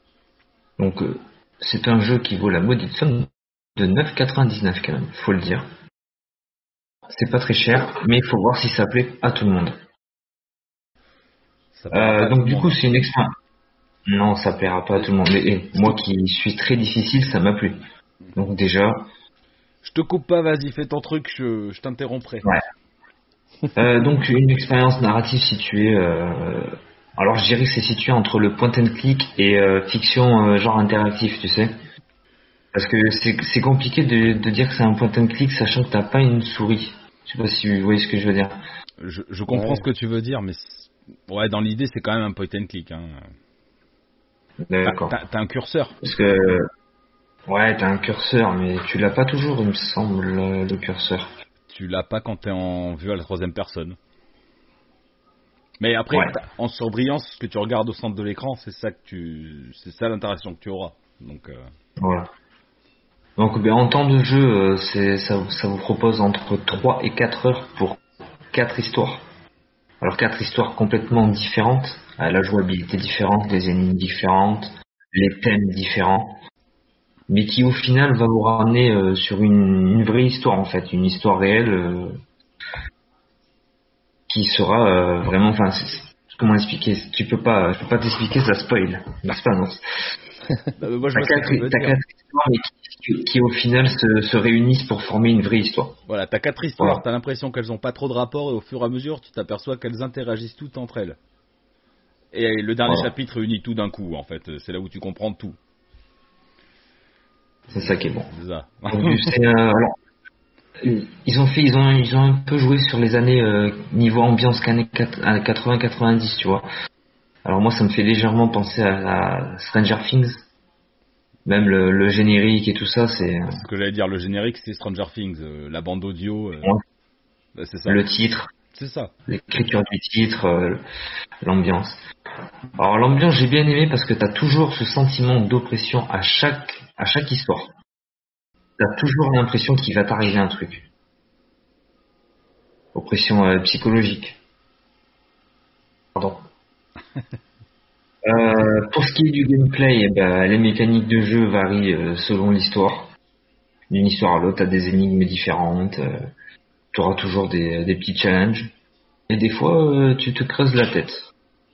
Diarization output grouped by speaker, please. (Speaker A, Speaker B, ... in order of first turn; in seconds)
Speaker A: 0.8-5.7, 7.1-9.8, 11.9-13.3, 14.1-17.8, 18.4-19.1, 23.7-31.7, 32.7-38.6, 44.7-45.1, 46.0-46.7, 47.5-51.3, 56.1-56.4, 62.0-62.3, 63.4-69.2, 70.0-76.4, 77.3-82.2, 84.3-89.8, 91.1-96.0, 96.8-97.0, 102.9-103.1, 107.7-108.3, 108.9-110.0, 110.8-116.7, 117.5-120.5, 121.5-123.6, 127.9-128.5, 129.3-130.8, 131.4-132.0, 132.8-137.7, 138.8-140.9, 142.9-144.4, 146.2-146.4, 148.2-153.1, 153.9-156.2, 156.9-158.7, 159.3-161.3
Speaker B: 11.8-12.8, 19.8-22.5, 39.0-43.3, 44.8-46.0, 51.7-54.0, 55.8-61.7, 90.8-92.0, 96.1-101.2, 102.3-105.6, 107.7-109.4, 123.5-126.7, 127.5-128.0, 128.7-129.1